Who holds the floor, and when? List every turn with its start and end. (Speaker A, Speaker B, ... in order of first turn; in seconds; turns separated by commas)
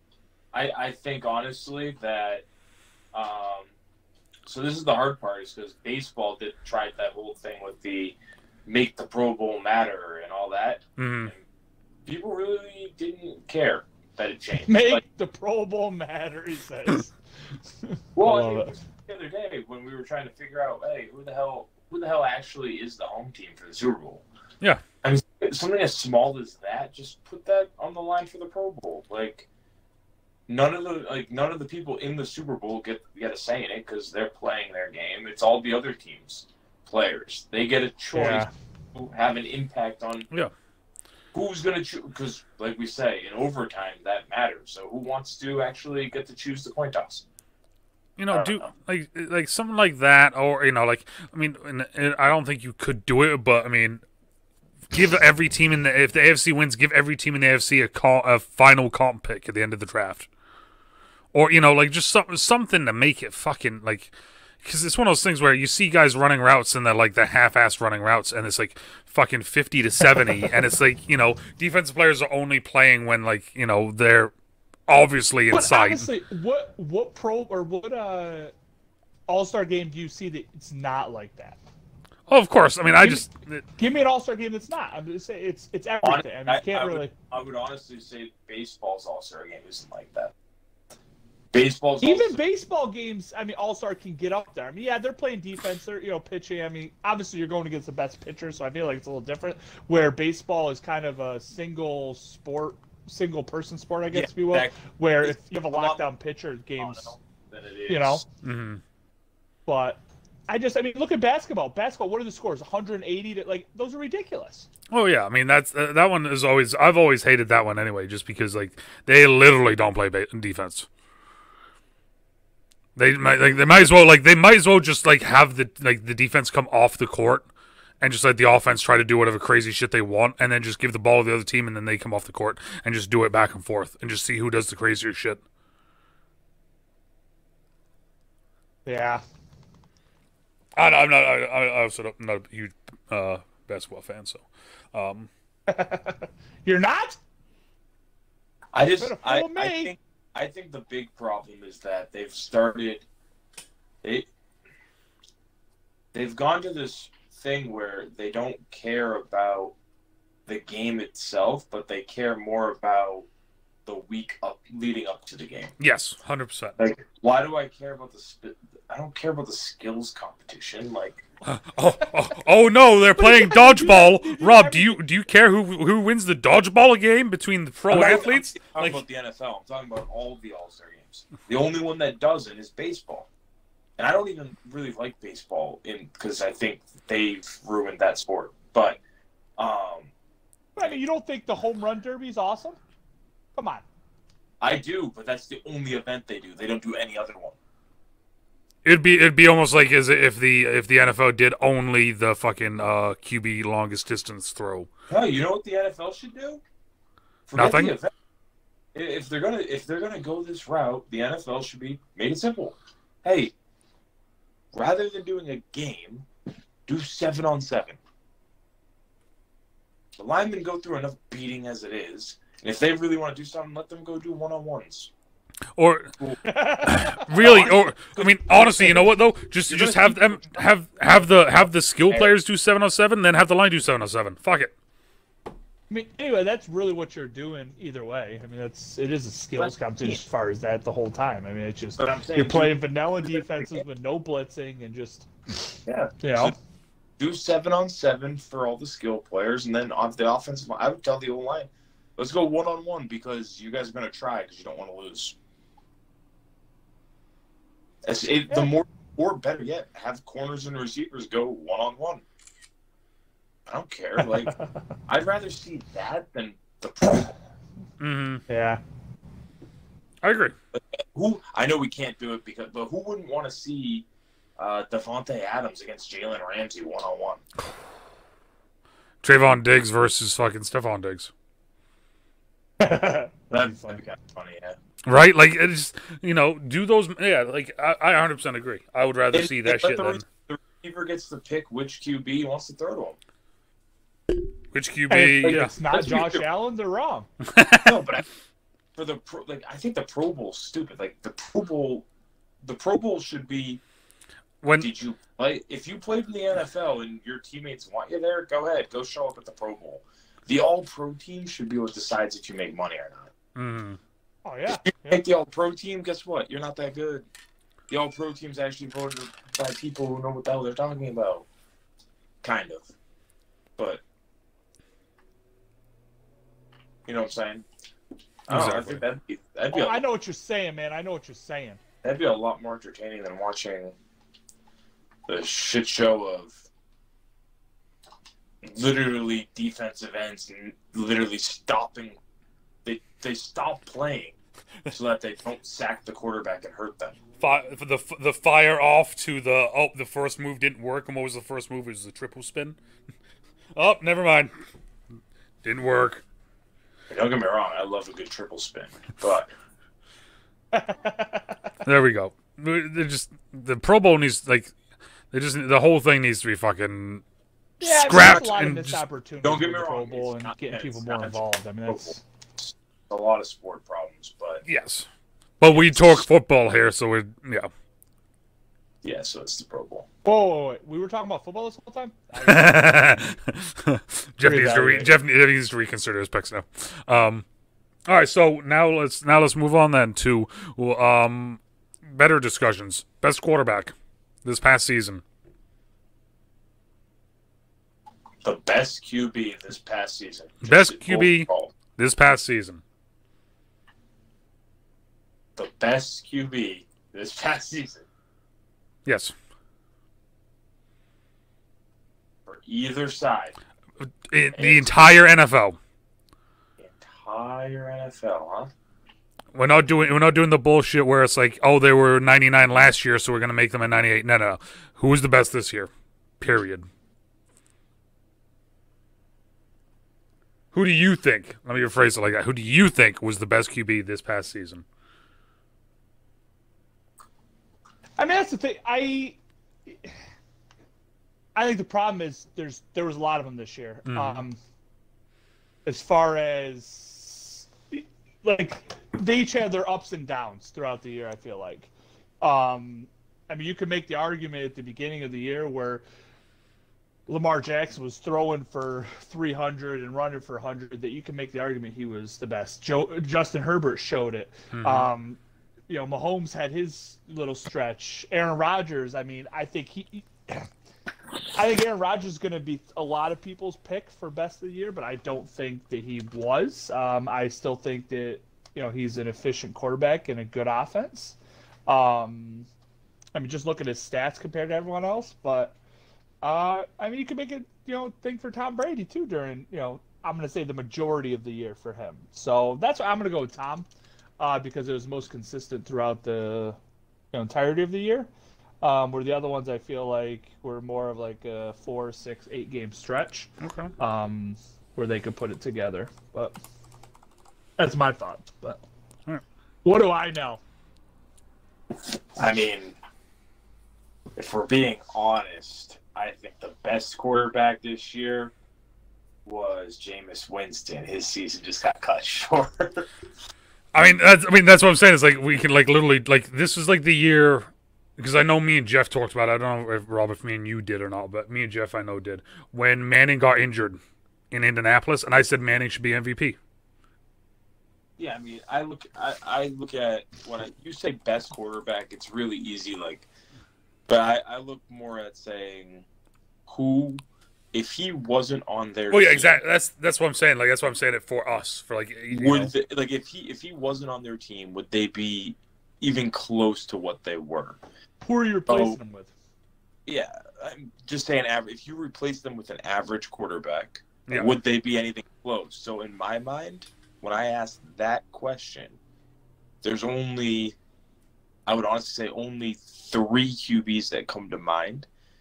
Speaker A: 0.5-2.5, Speaker A: 3.1-3.7, Speaker A: 4.5-11.4, Speaker B: 11.0-11.3, Speaker A: 12.1-15.0, Speaker C: 14.7-17.1, Speaker C: 17.8-18.7, Speaker A: 18.1-24.2, Speaker A: 25.0-29.5, Speaker A: 30.5-40.3, Speaker C: 38.1-38.5, Speaker A: 41.3-47.2, Speaker B: 48.2-54.0, Speaker A: 48.3-48.6, Speaker B: 54.9-60.3, Speaker B: 61.3-64.1, Speaker B: 64.6-74.3, Speaker C: 70.2-70.5, Speaker B: 74.9-76.1, Speaker C: 75.5-78.5, Speaker C: 79.3-81.6, Speaker B: 82.3-83.6, Speaker C: 83.0-87.1, Speaker A: 86.0-90.3, Speaker A: 91.5-92.4, Speaker C: 92.0-107.2, Speaker A: 104.1-106.0, Speaker A: 106.8-108.2, Speaker C: 107.9-108.2, Speaker B: 108.4-108.8, Speaker C: 109.7-114.7, Speaker B: 114.9-120.9, Speaker B: 123.0-127.5, Speaker B: 128.0-135.4, Speaker C: 138.9-139.2, Speaker B: 140.8-145.3, Speaker C: 145.7-147.2, Speaker A: 148.7-153.1, Speaker C: 149.0-149.9, Speaker A: 154.0-154.3, Speaker A: 156.1-159.8, Speaker A: 160.5-163.3, Speaker A: 163.9-165.7, Speaker B: 165.8-166.8, Speaker A: 166.8-171.2, Speaker B: 171.4-179.0, Speaker C: 173.2-175.0, Speaker A: 177.9-183.3, Speaker A: 184.0-189.0, Speaker A: 189.6-190.1, Speaker C: 190.8-192.8, Speaker C: 193.6-193.9, Speaker A: 194.6-197.6, Speaker B: 198.8-204.9, Speaker A: 205.1-206.6, Speaker A: 207.5-208.1, Speaker B: 207.6-207.9, Speaker A: 208.9-213.5, Speaker A: 214.7-216.3, Speaker A: 216.9-218.0, Speaker A: 220.2-225.1, Speaker B: 225.8-226.1, Speaker C: 226.4-227.5, Speaker B: 226.8-234.8, Speaker A: 227.3-229.1, Speaker A: 229.7-230.6, Speaker C: 235.9-246.5, Speaker A: 239.6-240.2, Speaker A: 242.0-242.8, Speaker A: 245.9-246.5, Speaker A: 247.2-255.4, Speaker A: 258.0-262.2, Speaker A: 263.7-264.5, Speaker C: 264.2-264.7, Speaker A: 265.1-267.3, Speaker B: 268.0-268.4, Speaker C: 268.5-268.8, Speaker B: 270.2-270.6, Speaker A: 270.7-274.1, Speaker A: 274.6-277.4, Speaker B: 279.2-281.3, Speaker C: 282.8-284.0, Speaker A: 283.5-284.8, Speaker B: 285.1-290.3, Speaker A: 289.3-293.2, Speaker B: 294.7-295.7, Speaker C: 295.1-297.3, Speaker A: 295.4-296.4, Speaker B: 297.4-298.0, Speaker A: 297.8-298.3, Speaker A: 298.9-302.1, Speaker A: 302.6-303.8, Speaker B: 304.6-304.9, Speaker A: 304.8-313.3, Speaker B: 313.6-314.0, Speaker C: 314.4-315.2, Speaker A: 314.7-317.3, Speaker A: 317.9-321.5, Speaker A: 322.4-322.9, Speaker A: 323.8-324.0, Speaker A: 327.1-327.7, Speaker A: 328.5-330.0, Speaker B: 328.5-329.0, Speaker C: 329.7-331.8, Speaker A: 332.0-333.9, Speaker A: 335.3-336.6, Speaker A: 338.6-342.2, Speaker A: 342.9-344.4, Speaker A: 344.9-347.2, Speaker B: 347.4-352.8, Speaker B: 353.8-354.5, Speaker B: 355.6-356.2, Speaker A: 357.1-359.5, Speaker C: 360.7-361.6, Speaker B: 361.9-364.7, Speaker B: 365.3-367.2, Speaker B: 367.8-369.0, Speaker C: 367.8-372.2, Speaker A: 368.0-368.6, Speaker A: 369.4-374.6, Speaker B: 374.7-375.1, Speaker B: 375.6-377.7, Speaker A: 375.7-376.2, Speaker A: 379.0-380.1, Speaker C: 380.2-383.2, Speaker B: 382.4-387.4, Speaker C: 384.4-385.1, Speaker B: 388.1-395.2, Speaker A: 398.4-401.8, Speaker B: 400.6-402.8, Speaker A: 405.6-408.1, Speaker B: 409.1-409.3, Speaker A: 412.5-413.6, Speaker B: 414.3-415.8, Speaker A: 414.6-415.1, Speaker A: 416.8-418.7, Speaker B: 419.5-426.9, Speaker B: 430.7-434.9, Speaker C: 438.2-440.1, Speaker C: 441.6-444.6, Speaker B: 444.1-444.4, Speaker C: 445.9-451.9, Speaker C: 452.4-456.0, Speaker C: 457.3-470.7, Speaker B: 464.7-465.1, Speaker C: 471.5-482.7, Speaker C: 483.4-485.8, Speaker C: 486.4-493.9, Speaker C: 494.4-496.8, Speaker C: 497.3-498.3, Speaker C: 498.8-506.5, Speaker B: 503.6-503.9, Speaker C: 507.8-508.8, Speaker C: 509.9-510.6, Speaker A: 512.4-513.0, Speaker A: 514.4-518.5, Speaker A: 519.5-523.1, Speaker B: 523.9-534.0, Speaker B: 534.5-536.6, Speaker A: 538.2-543.3, Speaker A: 544.1-546.1, Speaker A: 546.7-547.2, Speaker A: 547.7-549.6, Speaker B: 549.1-552.7, Speaker A: 552.3-557.8, Speaker C: 558.2-559.3, Speaker A: 558.7-559.0, Speaker A: 560.1-569.0, Speaker B: 564.3-564.5, Speaker A: 569.8-570.8, Speaker A: 571.7-575.1